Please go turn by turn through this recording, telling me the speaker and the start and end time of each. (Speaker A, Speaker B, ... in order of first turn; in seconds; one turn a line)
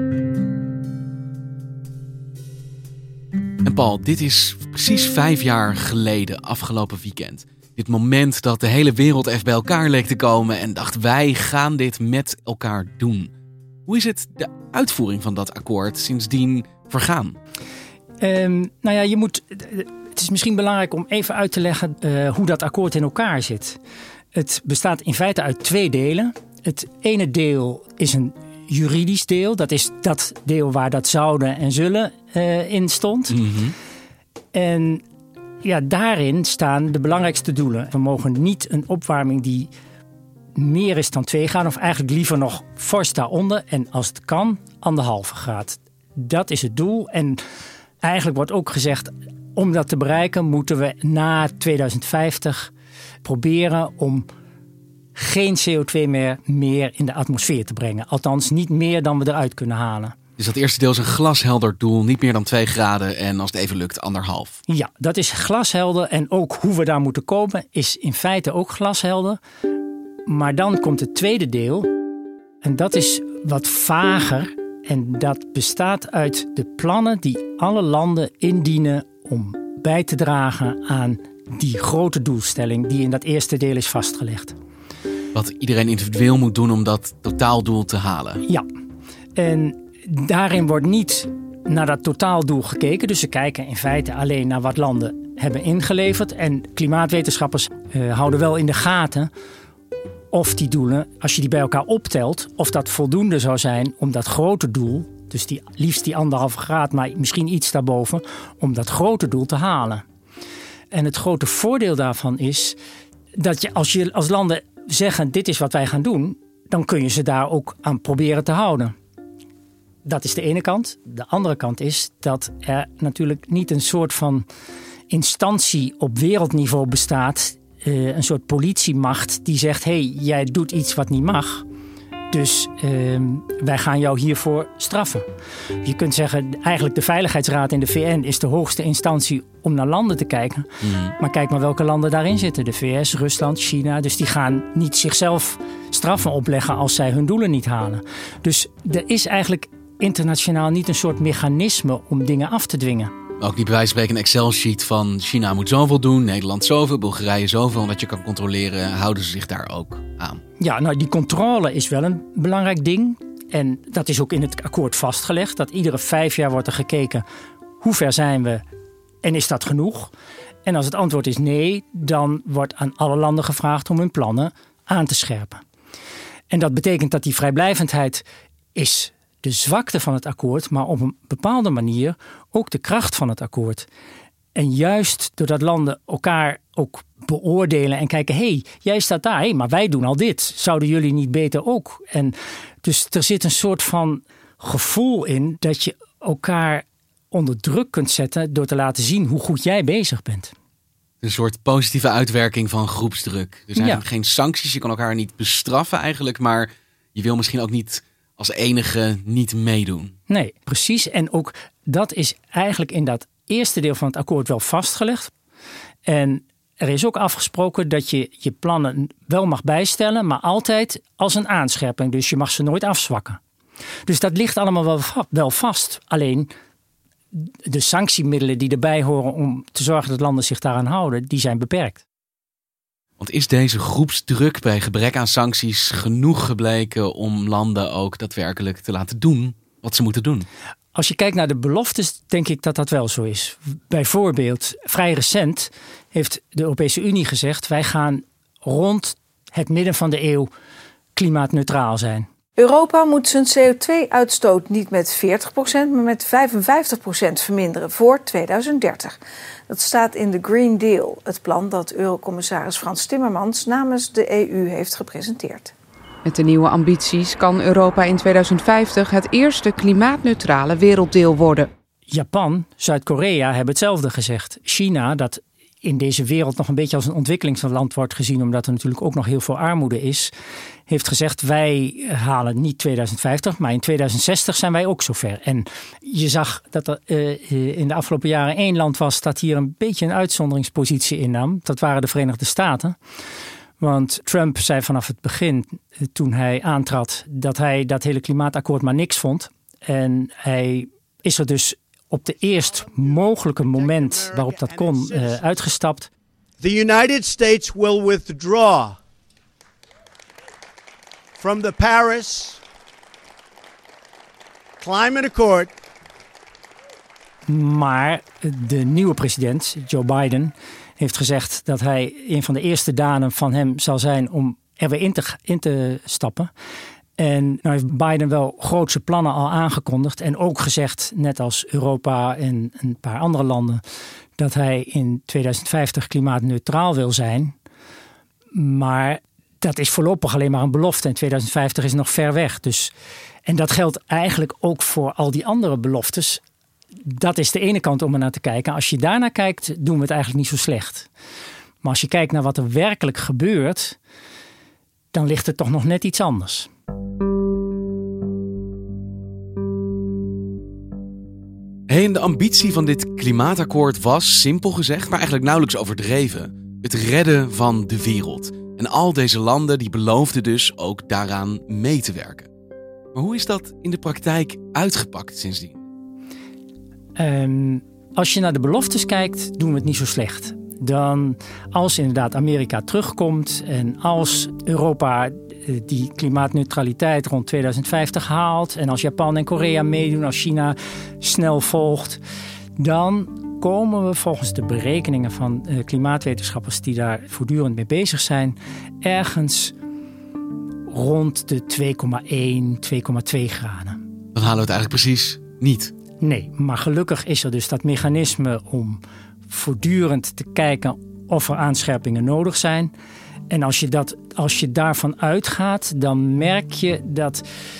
Speaker A: 3.6-13.3
Speaker A: 13.9-17.4
Speaker B: 18.2-23.8
Speaker B: 24.3-33.4
Speaker A: 33.3-33.7
Speaker B: 34.5-35.0
Speaker B: 35.6-39.7
Speaker B: 40.6-47.4
Speaker B: 48.0-52.7
Speaker B: 53.2-54.3
Speaker B: 55.1-60.1
Speaker A: 60.4-64.6
Speaker B: 64.7-69.4
Speaker B: 70.3-71.9
Speaker B: 72.6-84.5
Speaker A: 85.3-88.4
Speaker B: 89.4-99.3
Speaker B: 100.3-110.0
Speaker B: 110.9-112.8
Speaker B: 113.3-118.9
Speaker B: 120.0-124.5
Speaker B: 125.1-131.6
Speaker B: 132.3-135.2
Speaker B: 135.8-153.1
Speaker A: 140.8-141.1
Speaker A: 153.4-160.4
Speaker B: 160.6-167.2
Speaker B: 167.8-168.6
Speaker B: 169.2-170.1
Speaker B: 170.6-175.6
Speaker B: 176.5-178.2
Speaker B: 178.7-183.9
Speaker B: 184.5-200.5
Speaker A: 201.2-210.1
Speaker B: 203.7-204.0
Speaker B: 210.3-215.3
Speaker B: 216.1-223.4
Speaker B: 224.1-226.5
Speaker B: 227.3-232.0
Speaker A: 233.2-240.5
Speaker B: 240.9-250.5
Speaker B: 251.1-252.3
Speaker C: 252.6-259.2
Speaker C: 259.7-265.7
Speaker D: 266.2-271.7
Speaker B: 272.1-280.3
Speaker B: 280.9-292.9
Speaker B: 293.8-306.1
Speaker E: 302.9-305.4
Speaker E: 306.6-309.0
Speaker E: 311.4-312.6
Speaker E: 314.8-315.7
Speaker B: 317.5-326.5
Speaker B: 327.2-333.8
Speaker B: 334.4-337.6
Speaker B: 338.5-342.9
Speaker B: 343.4-346.4
Speaker B: 347.0-351.1
Speaker B: 351.8-354.0
Speaker B: 355.1-356.7
Speaker A: 361.9-372.5
Speaker A: 373.1-375.8
Speaker B: 377.2-392.2
Speaker B: 392.8-399.7
Speaker B: 400.9-404.0
Speaker A: 404.3-405.9
Speaker B: 406.2-412.9
Speaker B: 413.5-417.4